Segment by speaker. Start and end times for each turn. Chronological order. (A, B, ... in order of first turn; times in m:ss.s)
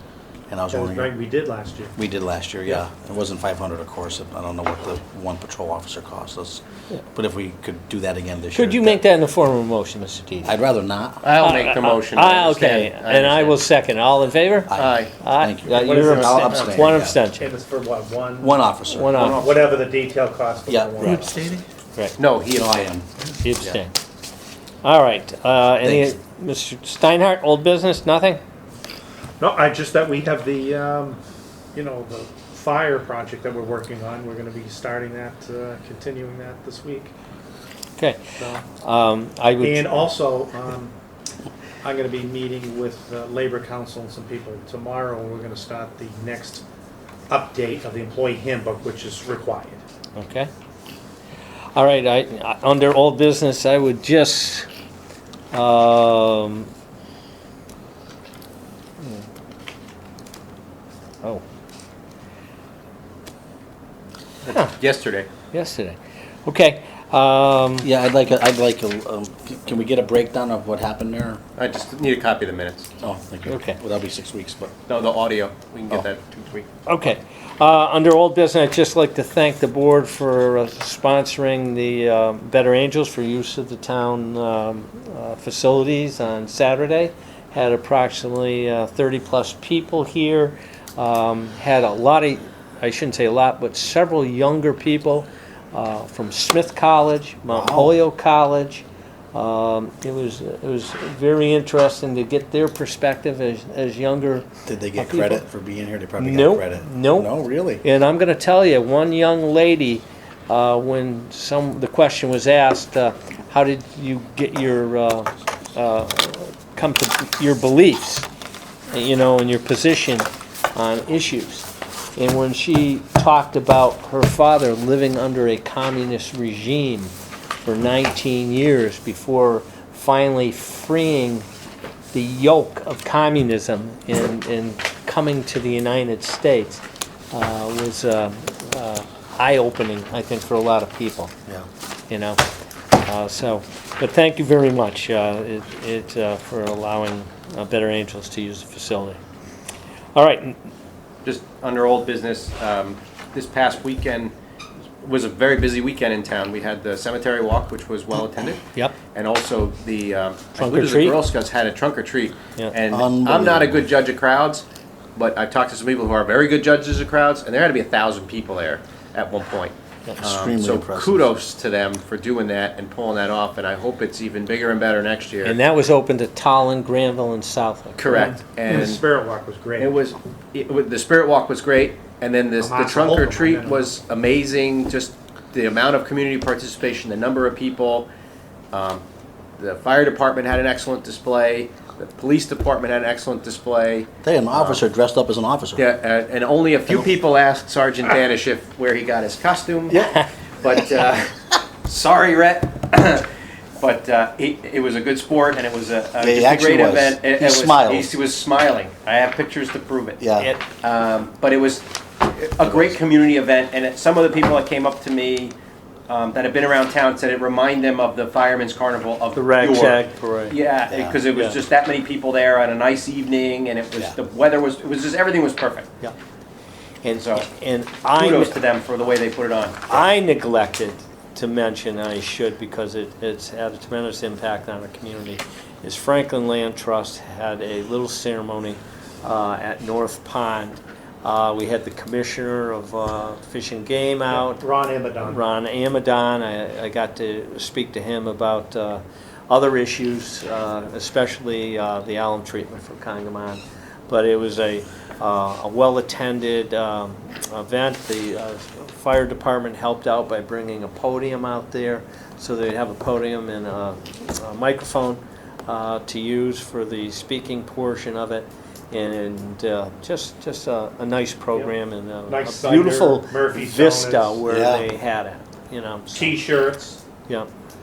0:00.5-0:01.1 A
0:00.7-0:01.9 B
0:02.0-0:09.0 A
0:08.5-0:10.6 C
0:10.4-0:11.2 A
0:11.2-0:13.6 D
0:11.4-0:17.5 C
0:14.7-0:17.2 A
0:14.7-0:15.1 D
0:15.7-0:16.8 D
0:17.4-0:18.6 B
0:18.4-0:19.2 A
0:18.9-0:19.5 C
0:19.1-0:19.6 D
0:19.3-0:21.6 B
0:20.7-0:21.6 A
0:22.2-0:22.8 D
0:22.5-0:23.1 A
0:23.4-0:23.9 C
0:24.8-0:28.4 C
0:25.8-0:26.2 A
0:29.4-0:31.2 B
0:31.7-0:37.1 B
0:38.0-0:40.0 C
0:38.4-0:38.6 B
0:39.6-0:40.9 B
0:41.8-0:46.6 B
0:47.3-0:49.8 B
0:50.2-0:50.5 C
0:51.7-0:54.7 C
0:55.5-0:56.7 C
0:59.0-0:59.2 C
1:04.4-1:05.3 D
1:04.5-1:04.7 C
1:05.5-1:07.9 C
1:07.8-1:11.4 A
1:11.6-1:12.9 D
1:13.0-1:14.7 A
1:13.4-1:13.8 C
1:14.9-1:16.7 D
1:16.8-1:45.4 C
1:37.5-1:37.9 A
1:44.6-1:47.8 A
1:46.2-1:58.3 C
1:58.9-2:07.1 C
2:07.6-2:11.4 C
2:12.1-2:21.3 C
2:22.1-2:22.4 C
2:23.0-2:29.2 C
2:30.1-2:30.6 C
2:31.2-2:34.3 D
2:35.0-2:55.6 D
2:40.6-2:41.2 C
2:42.9-2:43.8 A
2:50.2-2:51.3 A
2:55.4-2:58.3 C
2:58.0-2:59.0 D
2:58.1-2:59.9 B
2:59.8-3:08.1 D
3:02.6-3:03.9 B
3:08.7-3:09.0 D
3:09.6-3:14.8 D
3:14.2-3:15.8 A
3:15.8-3:30.2 D
3:26.2-3:28.1 A
3:30.2-3:30.5 A
3:30.4-3:30.6 C
3:30.8-3:45.9 D
3:32.6-3:32.9 A
3:39.3-3:40.6 C
3:40.9-3:41.2 A
3:41.3-3:41.6 C
3:47.0-3:48.5 C
3:47.0-3:47.5 D
3:48.1-3:50.0 D
3:49.9-4:04.6 C
4:04.3-4:05.4 B
4:05.2-4:36.4 C
4:32.3-4:34.4 B
4:34.5-4:34.9 A
4:36.1-4:37.0 B